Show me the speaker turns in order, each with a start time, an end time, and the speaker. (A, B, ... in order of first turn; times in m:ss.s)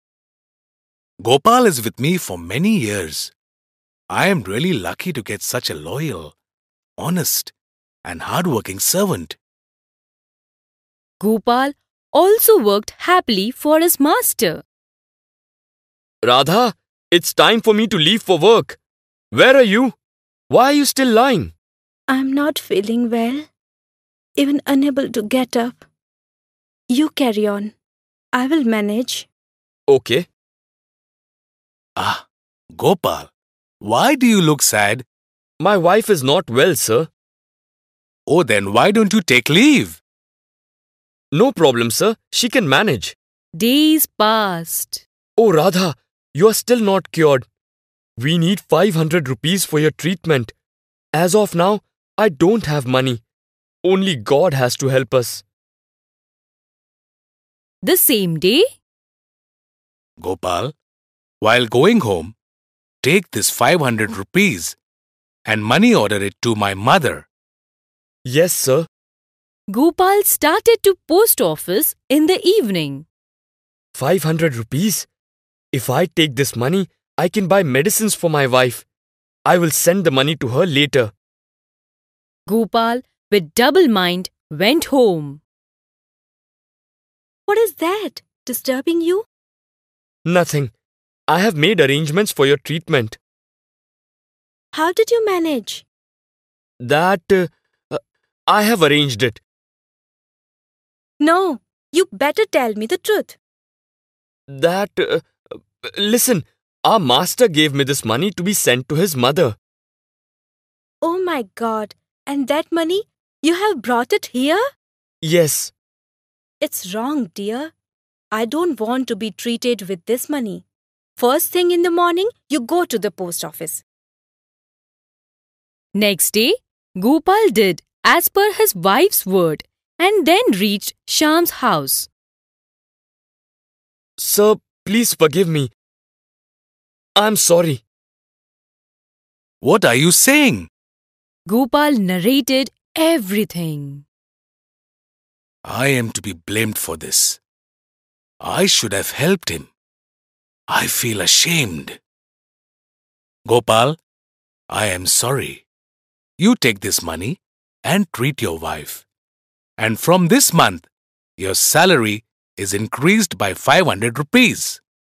0:01.2-0:03.3 A
0:04.1-0:06.3 A
0:07.0-0:07.5 A
0:08.0-0:09.4 A
0:11.2-0:14.6 B
0:16.2-0:18.8 C
0:19.3-0:19.9 C
0:20.5-0:21.5 C
0:22.1-0:23.5 D
0:24.4-0:25.8 D
0:26.9-0:27.7 D
0:28.3-0:29.3 D
0:29.9-0:30.2 C
0:32.0-0:33.3 A
0:33.8-0:35.0 A
0:35.6-0:37.1 C
0:38.3-0:40.0 A
0:41.3-0:43.1 C
0:43.6-0:45.0 B
0:45.4-0:47.5 C
0:48.2-0:50.5 C
0:51.1-0:53.2 C
0:53.8-0:55.4 C
0:57.8-0:58.7 B
1:00.2-1:00.7 A
1:01.4-1:02.3 A
1:03.0-1:04.8 A
1:05.4-1:07.3 A
1:08.3-1:08.9 C
1:09.7-1:13.0 B
1:13.9-1:15.1 C
1:15.7-1:18.8 C
1:19.4-1:21.1 C
1:22.5-1:25.4 B
1:27.5-1:29.2 D
1:30.2-1:30.7 C
1:31.3-1:33.2 C
1:34.7-1:35.8 D
1:36.8-1:39.4 C
1:41.2-1:43.4 D
1:44.5-1:49.6 C
1:51.0-1:54.6 D
1:55.2-1:55.7 C
1:56.6-1:57.7 D
1:58.3-2:00.6 D
2:01.2-2:03.8 D
2:05.9-2:12.1 B
2:14.2-2:15.7 C
2:17.2-2:17.8 C
2:19.6-2:20.7 A
2:21.4-2:24.0 B
2:25.6-2:27.4 A
2:28.4-2:29.7 A
2:30.7-2:32.0 A
2:33.4-2:34.0 A
2:34.7-2:35.6 A
2:36.4-2:39.0 A
2:39.8-2:40.9 A
2:41.4-2:44.8 A